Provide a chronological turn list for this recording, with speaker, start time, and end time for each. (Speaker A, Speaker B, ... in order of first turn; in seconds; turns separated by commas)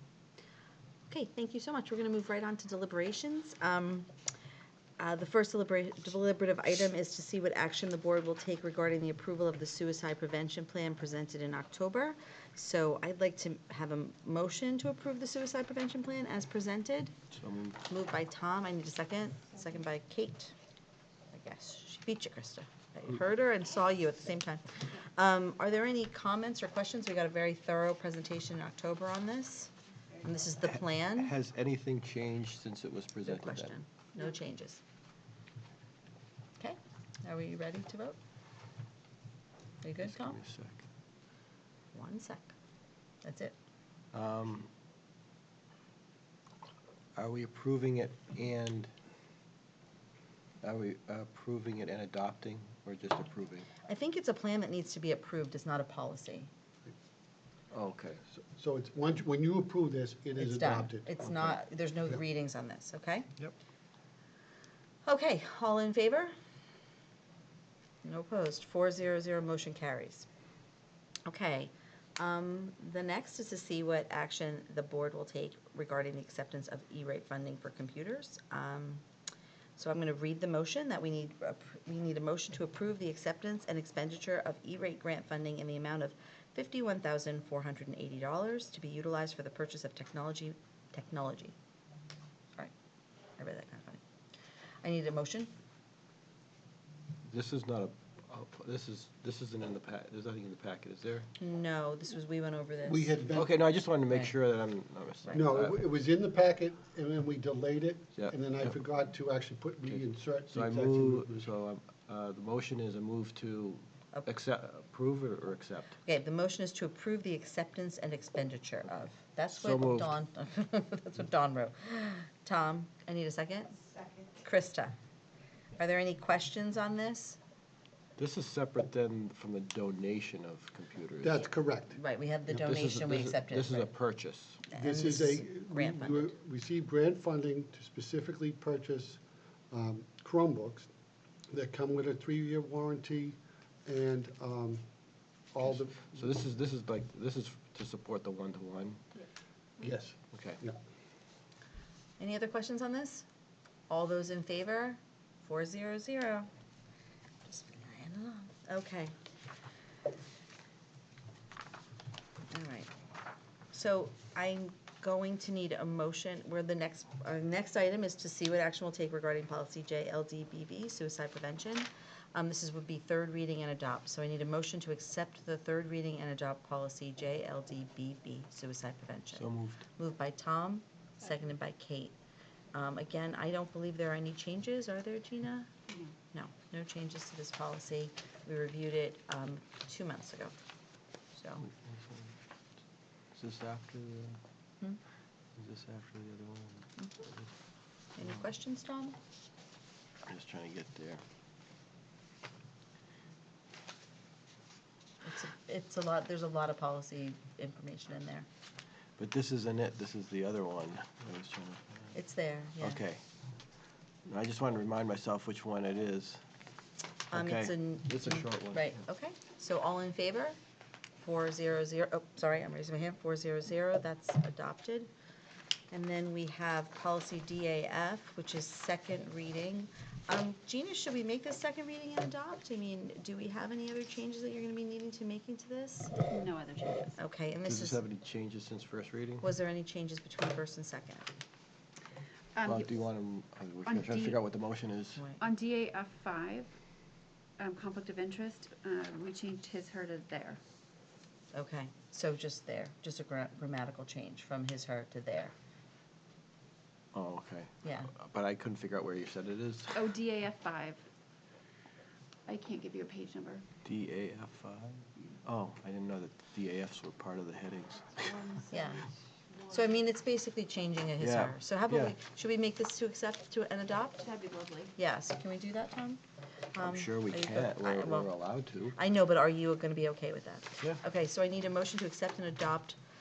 Speaker A: 1.1-4.1, Speaker A: 5.0-17.1, Speaker B: 17.3-17.8, Speaker A: 17.9-20.5, Speaker A: 21.3-29.7, Speaker A: 30.2-31.3, Speaker B: 31.1-33.8, Speaker A: 33.3-34.8, Speaker A: 36.6-38.2, Speaker A: 39.8-40.4, Speaker B: 40.0-40.9, Speaker A: 41.9-42.5, Speaker A: 43.2-43.5, Speaker B: 44.1-44.7, Speaker B: 47.2-48.9, Speaker B: 50.6-53.7, Speaker A: 53.9-56.5, Speaker B: 57.7-58.3, Speaker C: 58.6-61.5, Speaker A: 60.4-63.3, Speaker A: 65.0-66.3, Speaker A: 68.0-70.3, Speaker A: 71.3-79.0, Speaker A: 79.8-91.5, Speaker A: 93.4-94.0, Speaker A: 94.8-95.5, Speaker B: 97.3-101.3, Speaker A: 101.4-103.2, Speaker C: 102.8-103.5, Speaker B: 103.3-105.8, Speaker C: 105.3-111.5, Speaker B: 108.2-108.7, Speaker B: 109.9-116.0, Speaker A: 116.0-123.7, Speaker B: 119.5-120.2, Speaker A: 124.4-125.0, Speaker A: 125.8-127.4, Speaker B: 128.2-131.4, Speaker C: 131.2-132.0, Speaker A: 132.0-133.9, Speaker B: 132.5-134.6, Speaker A: 134.7-136.3, Speaker C: 134.7-140.9, Speaker C: 141.5-144.8, Speaker C: 145.5-146.2, Speaker B: 145.6-149.0, Speaker C: 149.8-150.8, Speaker B: 150.3-150.6, Speaker A: 152.2-153.2, Speaker A: 153.9-156.5, Speaker A: 157.5-159.1, Speaker A: 162.5-162.9, Speaker A: 163.7-182.1, Speaker B: 179.3-179.8, Speaker A: 182.7-185.7, Speaker D: 185.9-186.2, Speaker A: 186.3-190.5, Speaker A: 191.3-191.7, Speaker B: 191.6-192.4, Speaker B: 193.3-194.4, Speaker B: 195.6-197.5, Speaker A: 198.2-199.2, Speaker B: 200.2-201.2, Speaker A: 205.2-208.5, Speaker B: 209.2-212.2, Speaker A: 212.1-213.0, Speaker B: 212.8-213.2, Speaker B: 214.2-216.4, Speaker B: 217.3-218.9, Speaker A: 217.3-220.6, Speaker A: 221.2-225.1, Speaker A: 225.9-236.2, Speaker D: 236.3-237.2, Speaker A: 237.2-238.0, Speaker B: 237.7-239.4, Speaker A: 239.4-241.3, Speaker D: 242.6-242.9, Speaker B: 242.7-245.2, Speaker D: 243.9-244.4, Speaker D: 245.4-246.7, Speaker D: 247.6-250.6, Speaker A: 251.5-255.5, Speaker B: 257.1-260.0, Speaker A: 257.8-258.1, Speaker D: 259.9-261.1, Speaker D: 262.5-263.6, Speaker B: 263.8-268.4, Speaker D: 268.2-269.8, Speaker A: 268.7-269.0, Speaker A: 269.7-274.2, Speaker B: 271.2-272.1, Speaker D: 274.2-274.9, Speaker A: 275.0-276.2, Speaker A: 276.7-278.3, Speaker B: 276.8-279.0, Speaker A: 278.9-283.0